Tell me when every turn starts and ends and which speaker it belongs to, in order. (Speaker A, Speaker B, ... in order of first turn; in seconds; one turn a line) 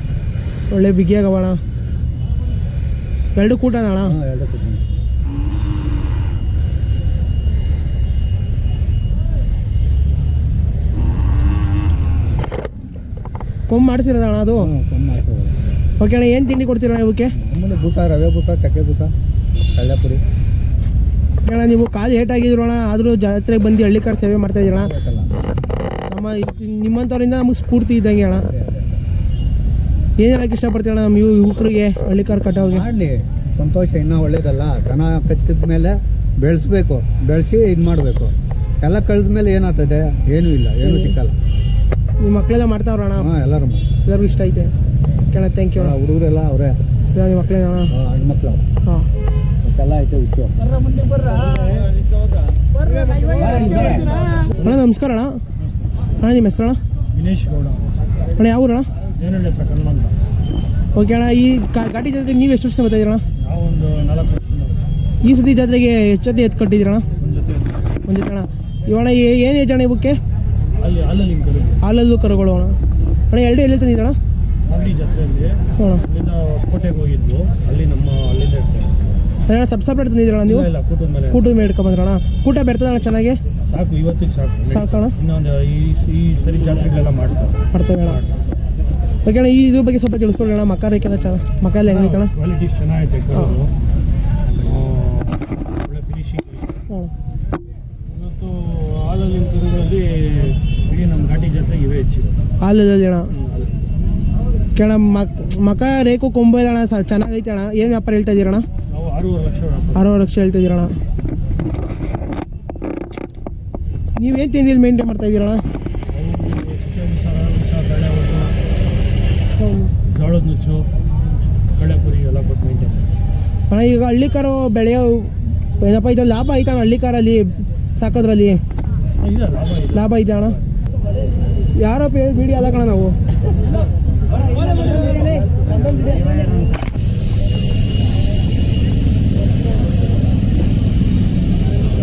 Speaker A: 0.7-1.6
Speaker A: 3.3-4.2
Speaker B: 4.0-4.8
Speaker A: 13.7-14.7
Speaker B: 14.5-15.6
Speaker A: 16.0-17.3
Speaker B: 17.3-19.1
Speaker B: 19.7-20.2
Speaker A: 21.4-24.9
Speaker B: 24.6-25.3
Speaker A: 26.1-28.5
Speaker B: 28.4-29.0
Speaker A: 30.2-32.8
Speaker B: 32.5-41.4
Speaker A: 40.8-41.1
Speaker A: 42.2-43.3
Speaker B: 43.1-43.9
Speaker A: 44.0-44.7
Speaker A: 45.3-46.0
Speaker B: 45.8-46.8
Speaker A: 47.1-47.9
Speaker B: 47.9-48.6
Speaker C: 49.7-52.2
Speaker C: 53.1-54.5
Speaker B: 53.4-54.2
Speaker A: 54.4-55.4
Speaker A: 56.2-56.8
Speaker C: 57.1-57.8
Speaker A: 58.3-58.9
Speaker C: 59.1-60.1
Speaker A: 60.9-63.2
Speaker C: 63.4-64.8
Speaker A: 65.2-67.1
Speaker C: 67.2-67.8
Speaker A: 68.0-70.2
Speaker C: 70.8-71.8
Speaker A: 71.8-72.8
Speaker A: 73.3-74.2
Speaker C: 74.7-75.6
Speaker A: 75.8-76.0
Speaker C: 76.1-79.1
Speaker A: 79.5-80.7
Speaker C: 80.4-81.4
Speaker A: 81.3-83.4
Speaker C: 83.6-87.6
Speaker A: 84.7-85.2
Speaker A: 87.7-88.2
Speaker A: 89.2-92.3
Speaker C: 91.9-93.6
Speaker A: 93.3-93.6
Speaker C: 94.7-96.8
Speaker C: 98.1-102.3
Speaker A: 102.6-103.3
Speaker C: 103.4-103.7
Speaker A: 104.7-108.6
Speaker C: 108.9-110.0
Speaker A: 109.9-111.0
Speaker A: 114.2-115.6
Speaker C: 116.1-118.5
Speaker A: 119.6-119.9
Speaker C: 120.1-120.9
Speaker C: 121.7-123.0
Speaker A: 123.7-128.6
Speaker C: 129.2-129.9
Speaker A: 129.9-130.6
Speaker A: 131.8-133.2
Speaker A: 134.9-135.2